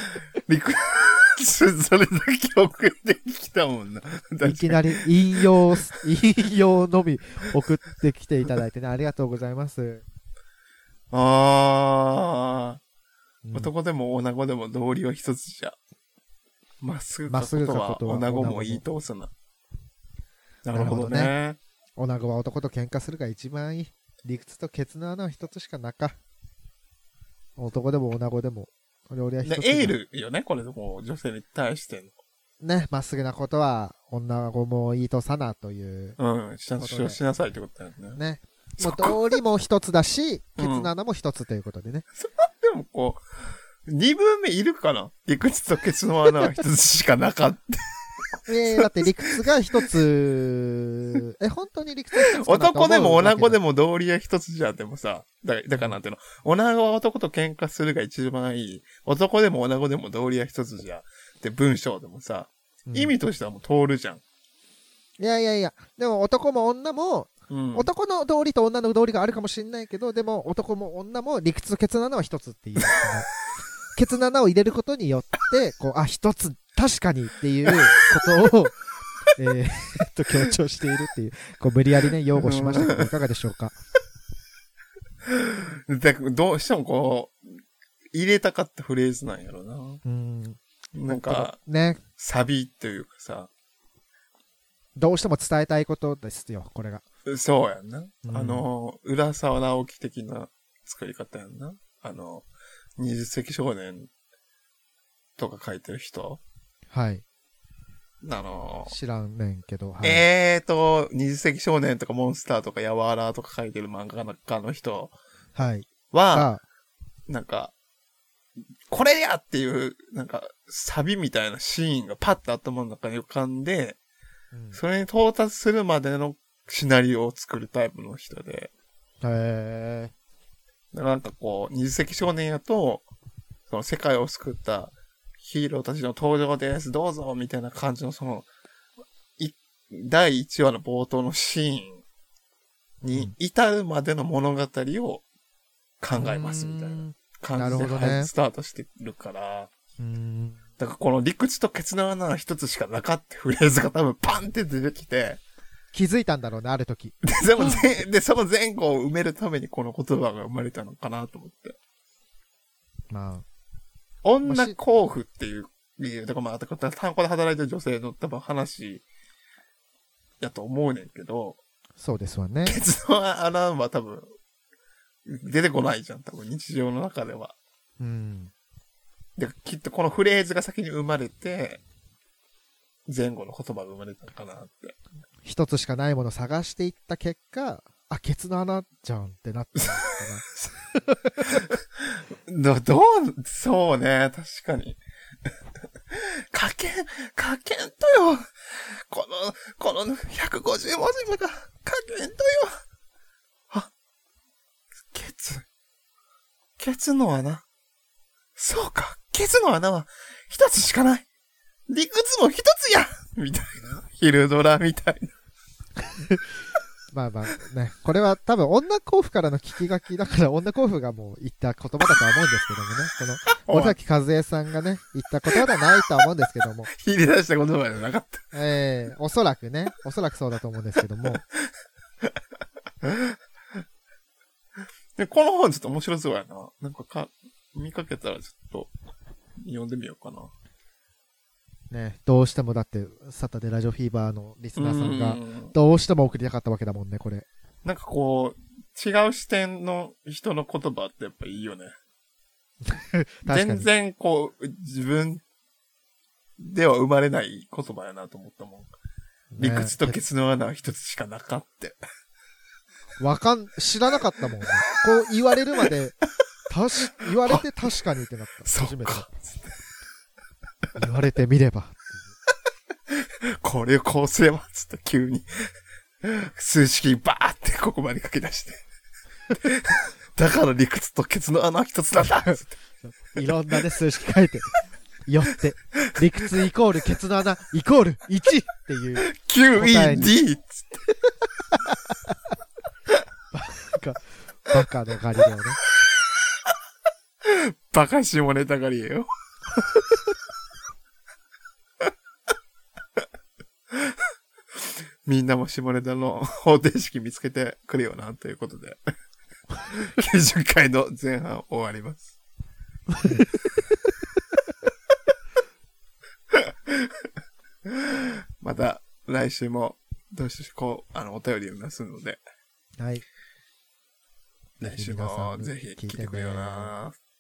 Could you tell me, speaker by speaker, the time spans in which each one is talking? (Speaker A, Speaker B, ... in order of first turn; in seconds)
Speaker A: 0.5-5.0, 11.1-12.8, 13.5-15.8, 16.8-19.3, 20.6-21.6, 29.4-32.2, 36.2-38.2, 38.8-39.4, 40.6-40.9, 42.2-43.2, 43.9-49.5, 52.3-64.2, 67.5-67.9, 82.3-83.1, 85.3-87.6, 88.1-90.0, 90.9-91.6, 92.2-93.5, 97.3-102.5, 103.0-104.1, 105.4-106.4, 108.2-108.9, 110.0-115.1, 116.1-116.5, 117.3-117.7, 118.9-124.0, 124.7-128.7, 130.9-133.1, 133.7-138.5, 139.4-142.0, 143.0-145.2, 146.0-149.7, 150.8-155.4, 157.2-161.8, 164.2-169.1, 170.4-171.6, 172.7-174.3, 175.2-177.6, 179.4-181.8, 183.1-185.0, 191.6-195.0, 196.1-202.8, 205.1-205.7, 206.8-207.7, 208.6-211.3, 211.9-215.3, 223.6-224.0, 226.9-228.4, 233.0-233.4, 235.2-238.9, 239.6-240.5, 244.8-245.7, 247.8-252.0, 253.5-255.4, 256.6-258.9, 259.6-262.0, 267.4-267.7, 268.6-269.7, 273.1-278.8, 279.5-282.7, 289.3-291.1, 297.4-299.3, 304.8-309.0, 309.9-312.3, 316.5-317.3, 317.9-322.4, 324.8-327.2
Speaker B: 4.4-10.1, 13.4-13.7, 17.3-18.8, 20.7-21.3, 22.0-26.2, 27.6-29.9, 32.6-36.2, 36.8-37.2, 38.2-42.1, 48.5-53.6, 62.9-63.1, 65.2-73.3, 74.0-78.8, 79.4-83.7, 90.0-92.0, 95.0-97.0, 98.2-98.7, 106.9-107.2, 108.9-110.2, 115.6-116.6, 124.5-124.8, 129.2-130.1, 146.2-148.3, 150.0-150.6, 155.9-157.9, 163.1-163.4, 164.4-164.8, 172.0-172.8, 178.0-178.5, 185.4-191.6, 217.1-226.9, 228.5-231.4, 241.9-247.5, 252.8-253.9, 259.5-260.2, 263.2-269.3, 271.0-272.3, 282.2-284.7, 285.3-290.4, 291.8-292.3, 293.5-295.8, 313.1-313.5, 323.0-323.2, 324.8-326.9